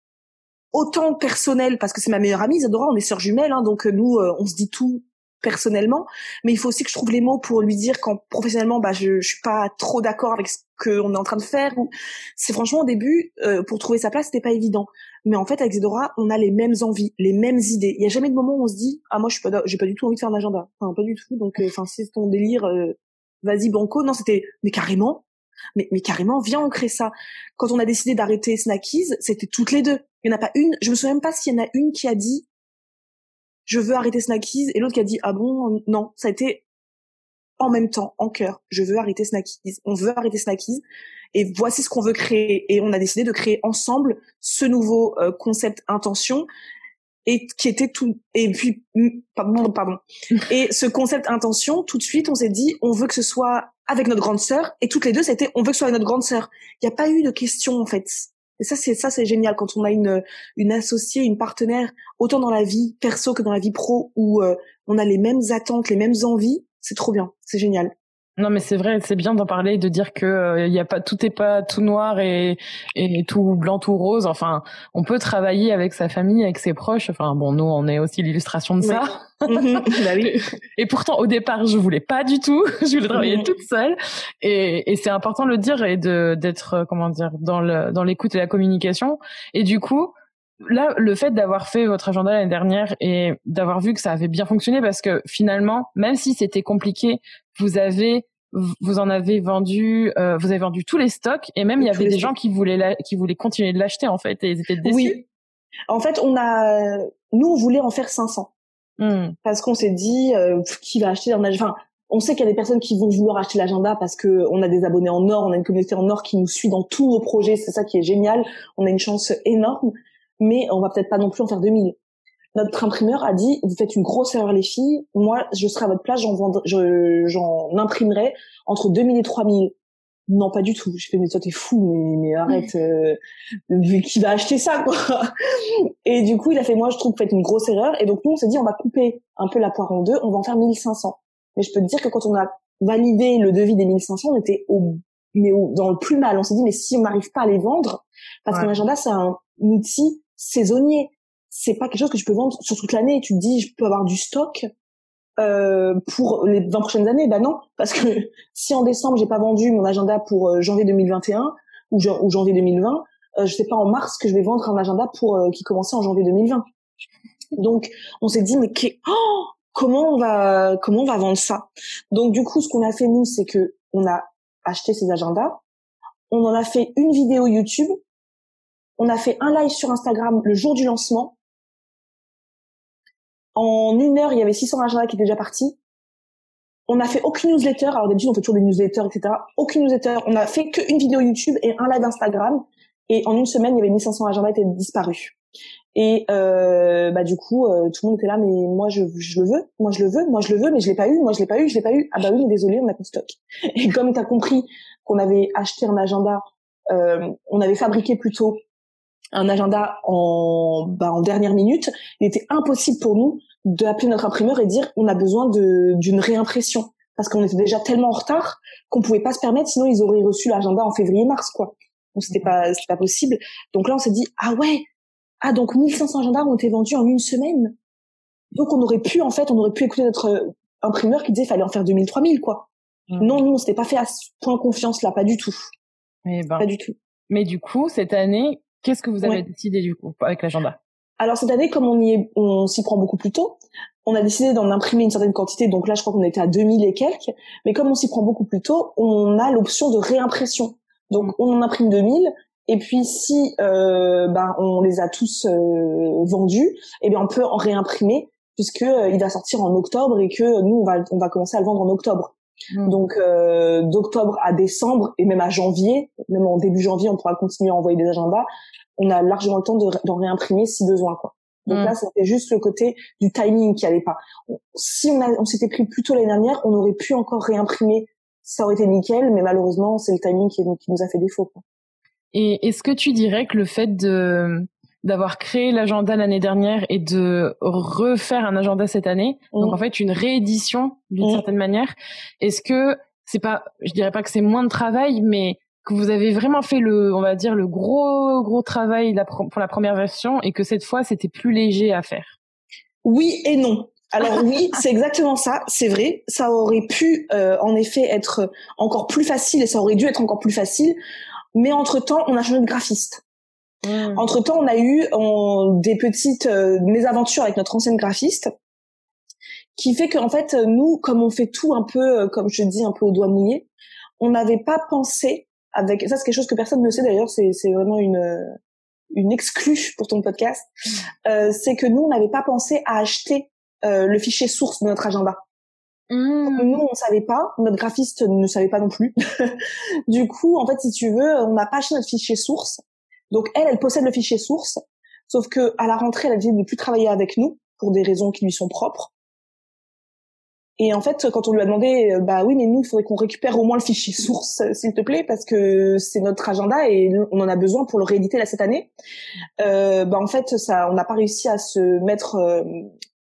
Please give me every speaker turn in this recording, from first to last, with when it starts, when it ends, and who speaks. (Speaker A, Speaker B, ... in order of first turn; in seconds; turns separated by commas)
Speaker A: 0.7-25.2, Speaker A: 25.8-32.5, Speaker A: 33.7-36.6, Speaker A: 37.6-40.8, Speaker A: 41.3-46.5, Speaker A: 47.2-67.9, Speaker B: 68.4-105.2, Speaker A: 78.8-80.4, Speaker A: 83.1-83.5, Speaker A: 101.8-102.3, Speaker A: 104.8-105.2, Speaker A: 105.9-108.5, Speaker B: 109.0-109.3, Speaker A: 109.4-122.0, Speaker A: 122.5-129.7, Speaker A: 130.3-133.2, Speaker A: 133.7-154.7, Speaker A: 155.4-166.6, Speaker A: 167.6-175.6, Speaker A: 176.3-178.0, Speaker A: 179.0-181.3, Speaker A: 183.5-185.8, Speaker A: 186.9-195.3, Speaker A: 195.9-208.6, Speaker A: 209.3-224.8, Speaker A: 225.4-227.7, Speaker A: 228.5-232.7, Speaker B: 233.1-233.4, Speaker A: 233.2-235.7, Speaker B: 236.2-236.7, Speaker A: 236.6-236.9, Speaker B: 237.3-240.8, Speaker A: 241.2-262.3, Speaker A: 262.9-268.5, Speaker A: 269.0-281.6, Speaker B: 282.3-302.4, Speaker A: 289.5-289.8, Speaker A: 303.0-310.9, Speaker A: 311.5-313.2, Speaker B: 313.8-314.3, Speaker A: 314.1-318.5, Speaker A: 319.8-323.7, Speaker A: 324.2-328.6, Speaker A: 329.1-330.7, Speaker A: 331.2-335.4, Speaker B: 336.1-336.8, Speaker A: 336.4-349.1, Speaker A: 350.8-358.9, Speaker A: 359.6-362.9